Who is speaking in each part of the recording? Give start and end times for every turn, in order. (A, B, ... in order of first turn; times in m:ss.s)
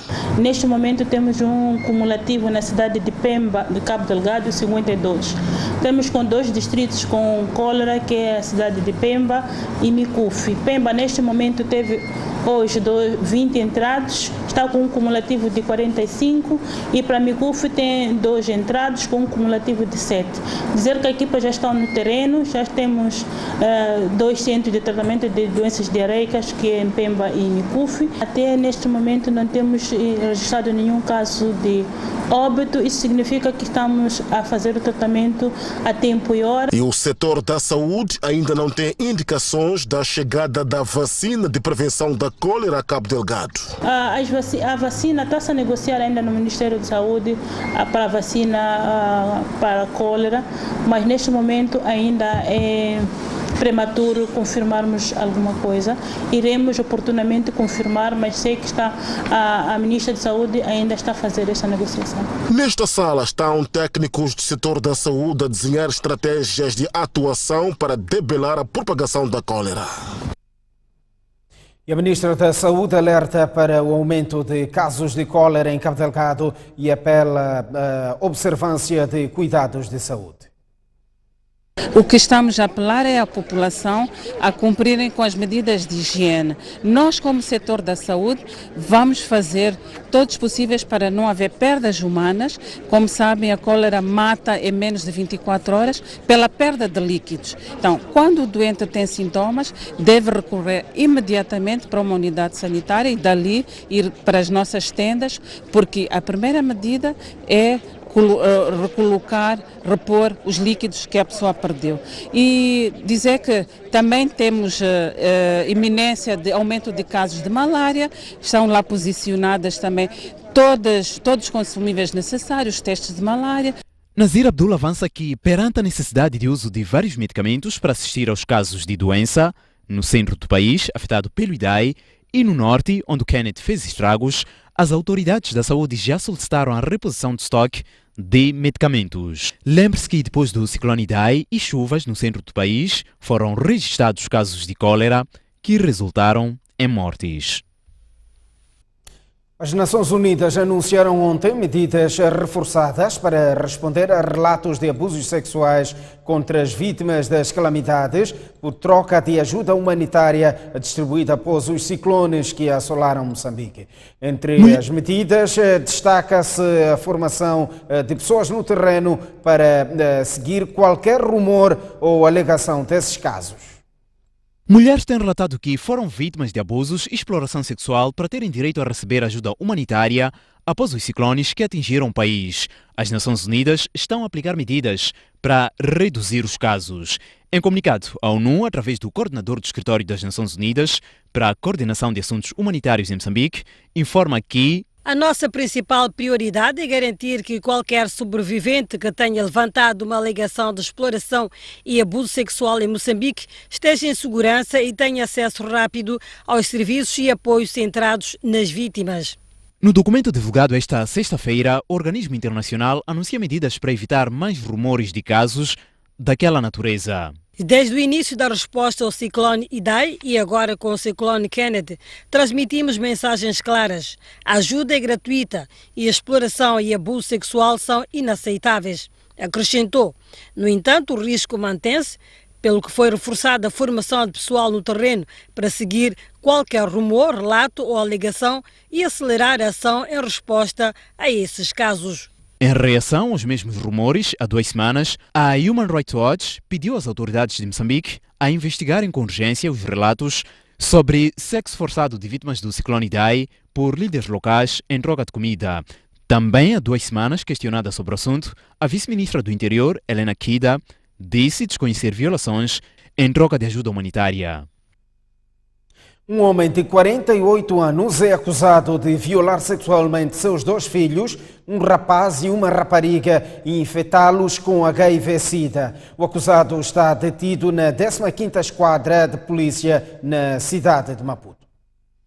0:00.4-0:36.7 A
0:36.7-0:43.6 B
0:43.8-1:02.3 A
1:02.5-1:09.9 B
1:11.9-1:20.5 C
1:21.9-2:03.8 D
2:04.2-2:27.6 E
2:29.6-2:53.8 C
2:54.7-3:14.8 E
3:15.0-3:29.4 F
3:29.8-3:37.4 E
3:37.6-4:02.3 F
4:02.6-4:24.7 E
4:26.3-4:41.6 C